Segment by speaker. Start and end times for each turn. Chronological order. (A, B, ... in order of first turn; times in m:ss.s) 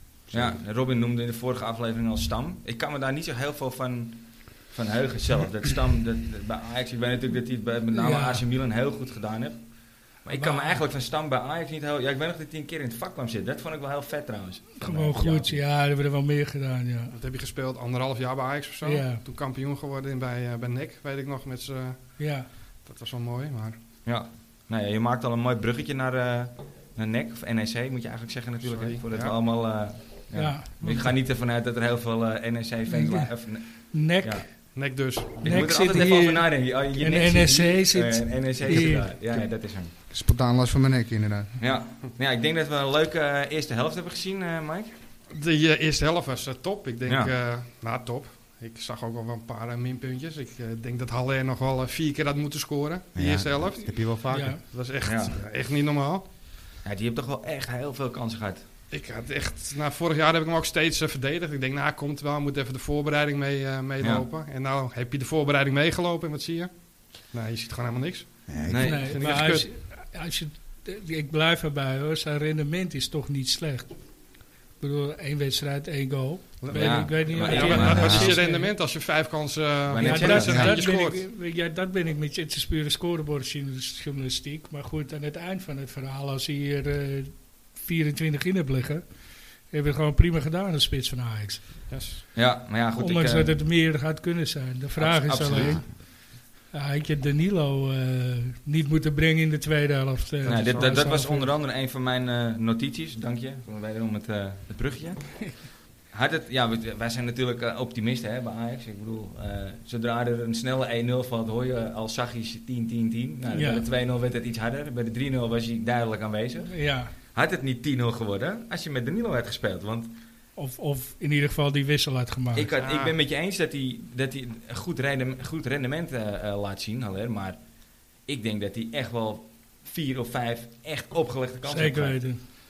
0:00.3-0:00.6 A
0:00.3-0:15.6 B
0:07.9-0:08.4 C
0:10.3-0:10.8 C
0:14.8-0:17.1 C
0:17.1-0:23.8 D
0:18.8-0:19.2 C
0:22.2-0:22.4 C
0:24.0-0:34.4 B
0:28.6-0:29.4 D
0:30.3-0:31.0 C
0:30.8-0:31.1 D
0:32.9-0:34.4 C
0:34.7-0:35.6 D
0:35.4-0:39.9 B
0:35.4-0:39.1 C
0:40.1-0:41.6 A
0:41.6-0:44.9 B
0:45.3-0:56.2 D
0:47.0-0:47.3 B
0:53.1-0:54.6 A
0:54.3-0:54.6 C
0:55.0-0:55.3 B
0:56.8-0:58.6 B
0:58.9-1:09.7 D
1:08.5-1:08.9 A
1:08.6-1:09.2 B
1:08.8-1:14.0 C
1:14.8-1:18.7 C
1:16.6-1:21.2 D
1:16.7-1:18.3 B
1:17.9-1:18.3 A
1:19.9-1:20.6 B
1:20.0-1:29.1 C
1:20.5-1:20.8 A
1:29.7-1:31.9 C
1:31.9-1:32.2 D
1:32.3-1:33.6 B
1:33.0-1:36.1 C
1:35.0-1:35.8 B
1:36.7-1:41.5 C
1:40.4-1:56.8 B
1:53.5-1:53.8 C
1:56.7-1:57.1 C
1:57.3-2:00.1 B
2:00.6-2:02.7 C
2:02.5-2:07.6 B
2:02.8-2:03.1 D
2:08.2-2:12.2 B
2:11.7-2:12.4 C